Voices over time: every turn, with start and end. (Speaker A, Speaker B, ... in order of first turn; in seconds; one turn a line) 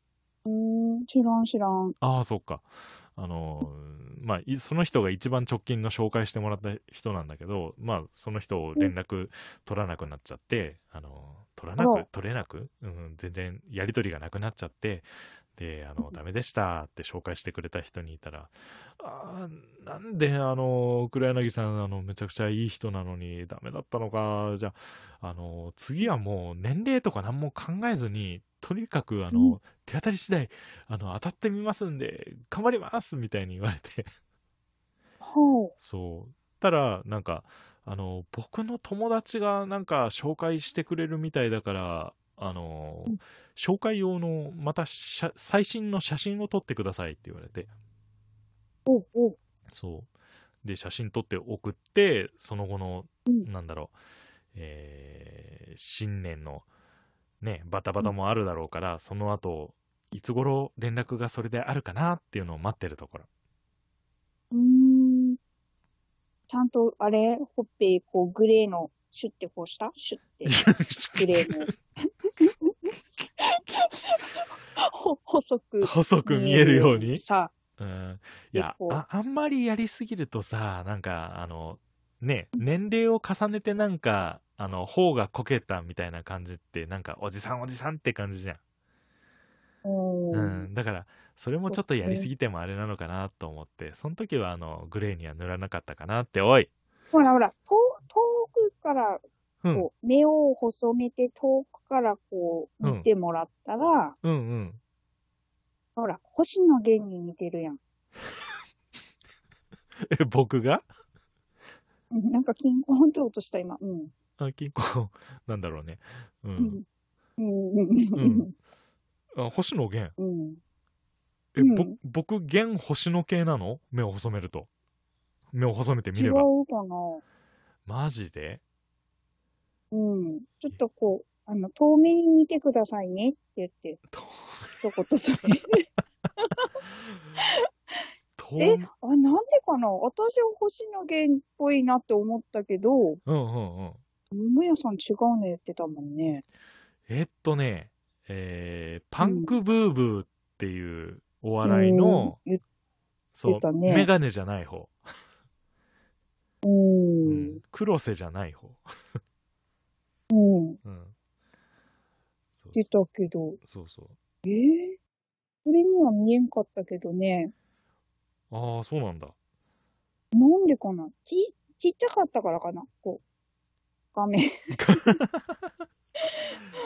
Speaker A: 0.5-1.9
Speaker B: 2.0-34.1
Speaker A: 11.8-12.1
Speaker A: 29.3-29.6
Speaker A: 35.2-35.7
Speaker B: 35.8-47.7
Speaker A: 48.9-49.4
Speaker B: 49.7-50.1
Speaker B: 50.6-53.9
Speaker B: 54.5-56.6
Speaker B: 57.4-63.3
Speaker A: 64.5-65.4
Speaker A: 66.5-70.6
Speaker B: 70.4-71.7
Speaker A: 71.2-71.8
Speaker A: 72.4-72.7
Speaker A: 73.4-77.5
Speaker B: 75.8-77.2
Speaker B: 77.8-88.6
Speaker A: 78.5-79.0
Speaker A: 89.8-90.7
Speaker B: 90.3-96.7
Speaker A: 91.7-92.3
Speaker A: 97.1-104.2
Speaker B: 99.6-99.9
Speaker B: 102.8-103.1
Speaker B: 104.2-104.8
Speaker A: 106.0-107.8
Speaker B: 110.0-110.8
Speaker A: 112.1-114.1
Speaker B: 114.4-116.8
Speaker A: 116.6-116.8
Speaker A: 117.4-118.5
Speaker B: 118.2-118.5
Speaker B: 119.3-120.1
Speaker A: 120.2-120.6
Speaker B: 121.5-124.7
Speaker A: 121.6-121.9
Speaker B: 125.5-126.5
Speaker A: 126.1-127.2
Speaker B: 127.8-128.6
Speaker A: 129.9-134.0
Speaker B: 134.1-134.9
Speaker A: 134.8-135.8
Speaker A: 136.4-136.7
Speaker B: 138.4-138.9
Speaker A: 138.6-143.2
Speaker B: 143.2-144.0
Speaker A: 144.3-146.4
Speaker B: 147.1-152.4
Speaker A: 149.2-149.5
Speaker A: 151.6-152.6
Speaker B: 153.3-155.0
Speaker A: 153.4-154.1
Speaker A: 156.6-157.6
Speaker B: 157.2-158.9
Speaker A: 160.3-160.8
Speaker B: 160.8-161.1
Speaker B: 162.6-162.8
Speaker A: 162.7-163.6
Speaker B: 163.6-164.2
Speaker A: 164.4-165.0
Speaker A: 165.6-167.5
Speaker B: 168.5-169.3
Speaker A: 170.3-173.2
Speaker A: 174.1-175.2
Speaker B: 174.7-175.7